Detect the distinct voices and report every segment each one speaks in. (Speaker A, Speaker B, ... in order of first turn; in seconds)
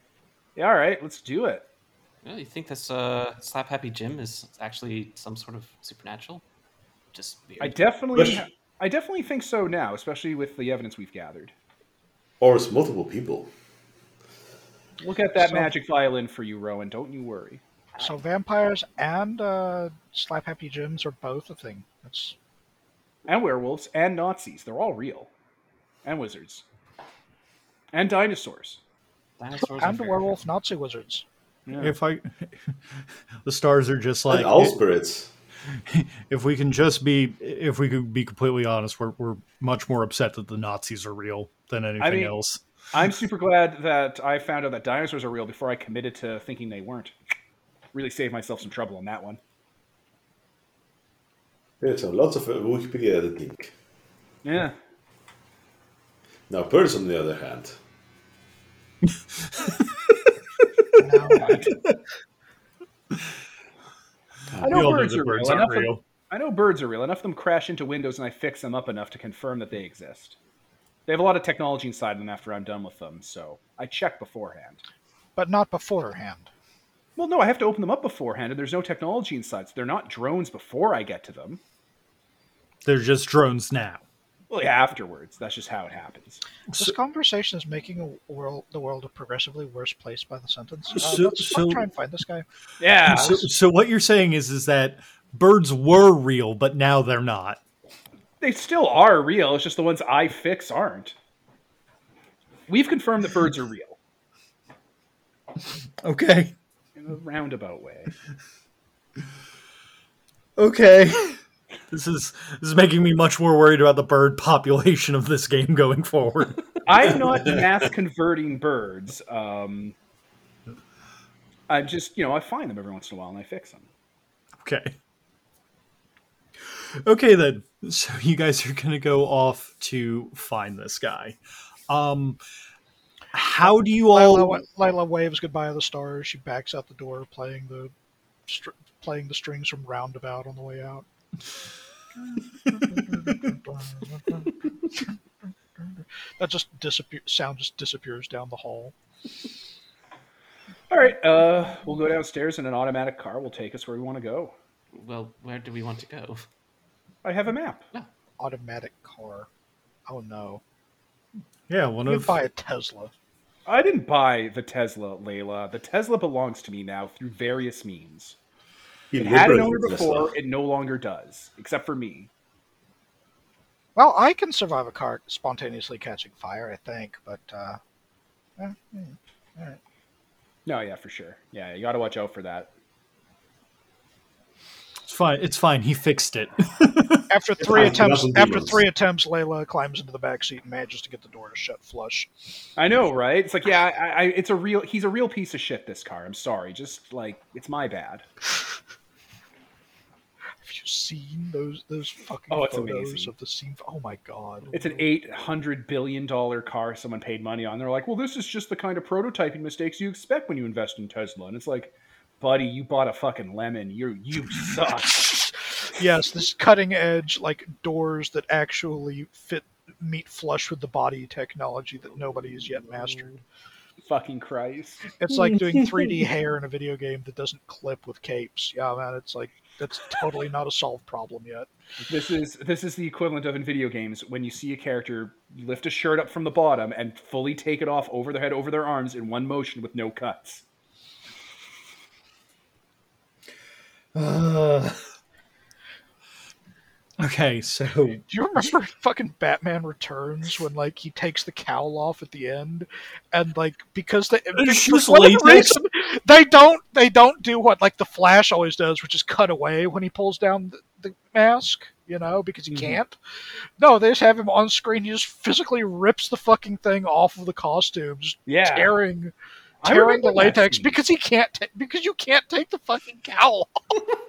Speaker A: 0.6-1.6, 7.6-11.5, 15.0-17.6, 23.3-25.3, 26.0-26.6, 27.9-28.8, 31.7-31.9, 42.0-42.3, 42.9-47.1, 47.9-49.4, 54.4-54.7, 61.4-61.7, 64.6-70.4, 71.1-74.8, 77.2-81.6, 84.5-86.4, 92.8-93.5, 98.4-101.1, 102.7-104.0, 107.0-108.1, 116.8-119.9, 121.7-123.8, 150.9-154.5, 157.2-157.8, 163.7-168.3, 169.2-172.3, 180.7-182.7, 192.8-198.2, 202.5-203.3, 204.7-215.6, 224.0-225.1, 232.0-240.6, 262.7-263.0, 268.5-268.9, 269.8-271.0
Speaker B: 2.2-6.4, 7.1-7.8, 29.4-30.4, 154.9-156.4
Speaker C: 8.1-8.4, 12.4-13.5, 34.3-35.3, 51.8-53.7, 56.5-57.8, 169.1-170.3, 187.6-188.8
Speaker D: 15.4-15.7, 18.0-22.3, 29.8-31.2, 61.0-61.6, 75.3-76.5, 86.8-92.4, 134.1-137.9, 138.5-141.0, 142.7-145.1, 145.8-148.9, 158.4-159.5, 160.1-160.6, 162.1-163.1, 173.9-177.8, 178.6-179.8, 187.3-192.3, 200.6-204.9, 216.0-223.3, 225.2-231.7, 248.3-263.1, 263.8-269.3, 269.8-274.1
Speaker E: 31.8-32.8, 33.4-34.8, 35.7-42.6, 59.4-59.9, 61.5-62.0, 64.7-66.0, 82.8-84.0, 86.7-86.9, 91.0-91.8, 93.0-97.6, 106.0-106.5, 110.6-111.4, 111.9-116.7, 124.6-124.9, 127.0-131.4, 131.9-132.4, 133.3-134.6, 161.7-162.3, 185.1-187.9, 225.3-226.2, 244.1-245.0, 247.2-248.2, 254.5-255.8